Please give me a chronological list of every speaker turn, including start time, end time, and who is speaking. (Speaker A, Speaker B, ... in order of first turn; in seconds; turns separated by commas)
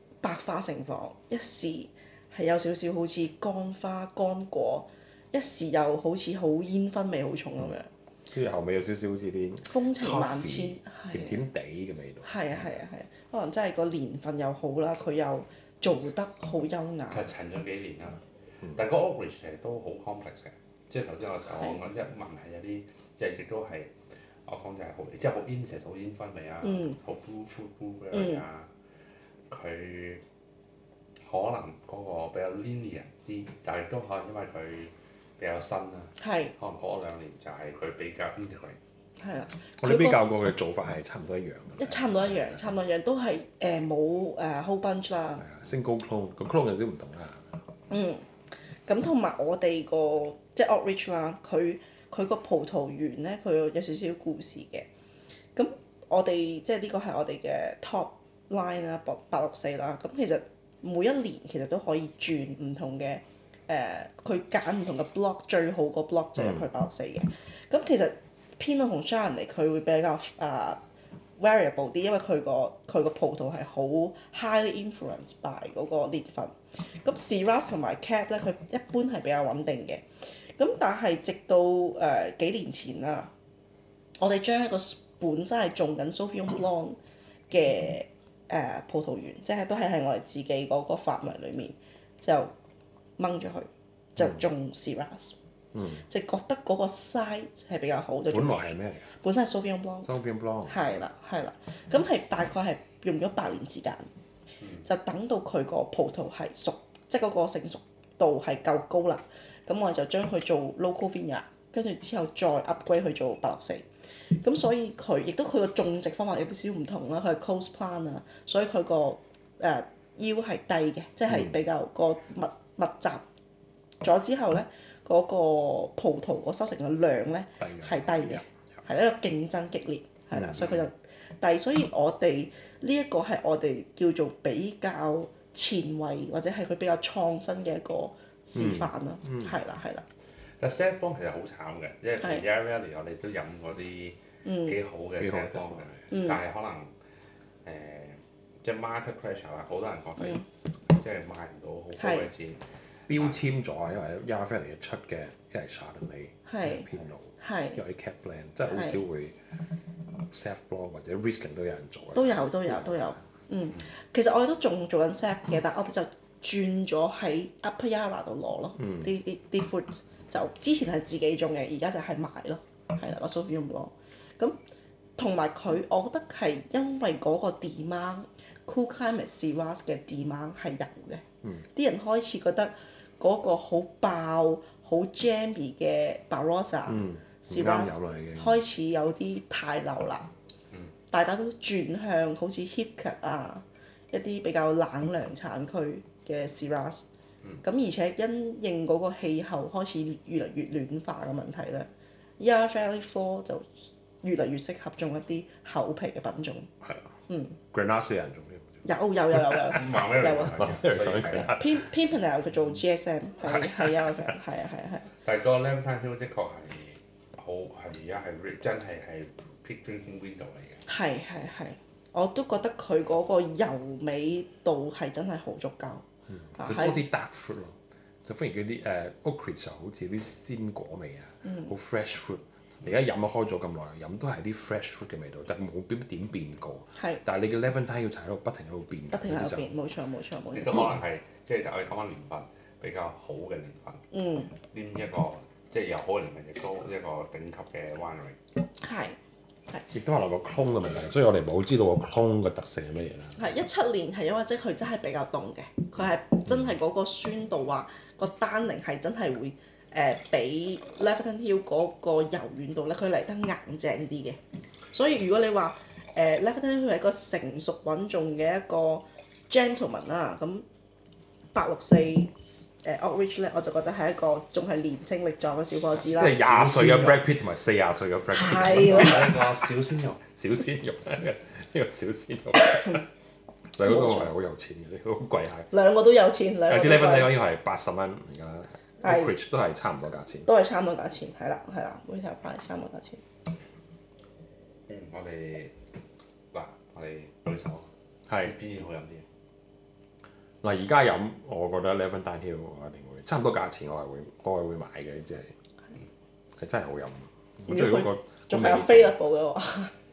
Speaker A: 0.2-7.9, Speaker B: 8.3-12.4, Speaker A: 9.7-11.4, Speaker A: 12.2-17.3, Speaker C: 17.1-18.2, Speaker C: 18.7-23.9, Speaker C: 24.5-28.7, Speaker A: 26.6-27.0, Speaker A: 28.1-28.4, Speaker C: 29.5-30.2, Speaker C: 31.3-38.8, Speaker A: 36.2-36.5, Speaker A: 39.2-40.2, Speaker B: 39.8-42.7, Speaker A: 41.8-45.5, Speaker B: 45.4-47.5, Speaker A: 47.9-48.2, Speaker A: 48.9-54.9, Speaker A: 55.6-70.8, Speaker B: 66.4-66.7, Speaker A: 71.4-83.3, Speaker A: 84.2-87.0, Speaker A: 87.5-92.5, Speaker A: 93.2-95.3, Speaker B: 95.7-96.0, Speaker A: 96.0-100.1, Speaker B: 98.3-99.1, Speaker B: 100.1-100.8, Speaker A: 100.7-104.1, Speaker A: 104.8-123.2, Speaker B: 121.3-121.5, Speaker A: 124.0-140.1, Speaker B: 127.6-128.8, Speaker B: 130.3-130.9, Speaker B: 138.6-139.6, Speaker C: 140.6-146.9, Speaker A: 144.4-144.8, Speaker B: 145.2-146.0, Speaker A: 146.1-146.4, Speaker C: 147.7-153.4, Speaker A: 152.0-152.3, Speaker B: 153.1-159.5, Speaker A: 156.5-156.9, Speaker A: 157.4-157.8, Speaker A: 158.7-159.0, Speaker B: 160.2-163.1, Speaker A: 162.2-174.6, Speaker B: 168.8-169.1, Speaker A: 175.2-190.3, Speaker B: 186.9-188.6, Speaker A: 191.1-197.0, Speaker A: 197.6-201.9, Speaker A: 202.4-206.7, Speaker A: 207.3-207.6, Speaker B: 207.7-211.9, Speaker A: 208.8-210.8, Speaker C: 209.7-211.7, Speaker A: 211.4-215.1, Speaker B: 213.5-214.2, Speaker C: 215.2-220.8, Speaker A: 220.9-227.1, Speaker B: 226.3-239.7, Speaker A: 231.4-231.7, Speaker A: 239.1-241.0, Speaker C: 240.5-244.0, Speaker A: 244.1-244.5, Speaker C: 244.6-248.4, Speaker A: 248.8-249.2, Speaker B: 249.9-253.5, Speaker A: 253.4-264.4, Speaker B: 256.5-256.7, Speaker A: 264.9-270.6, Speaker A: 271.5-276.4, Speaker B: 276.1-279.4, Speaker C: 276.2-277.2, Speaker A: 278.3-279.4, Speaker C: 278.6-280.2, Speaker B: 280.3-283.0, Speaker B: 283.7-285.7, Speaker A: 283.8-284.3, Speaker A: 285.7-287.4, Speaker B: 286.7-290.5, Speaker A: 289.0-289.4, Speaker A: 290.5-293.2, Speaker C: 294.9-295.7, Speaker C: 296.5-299.2, Speaker B: 298.3-298.5, Speaker B: 300.6-305.5, Speaker B: 306.6-309.2, Speaker A: 307.7-309.9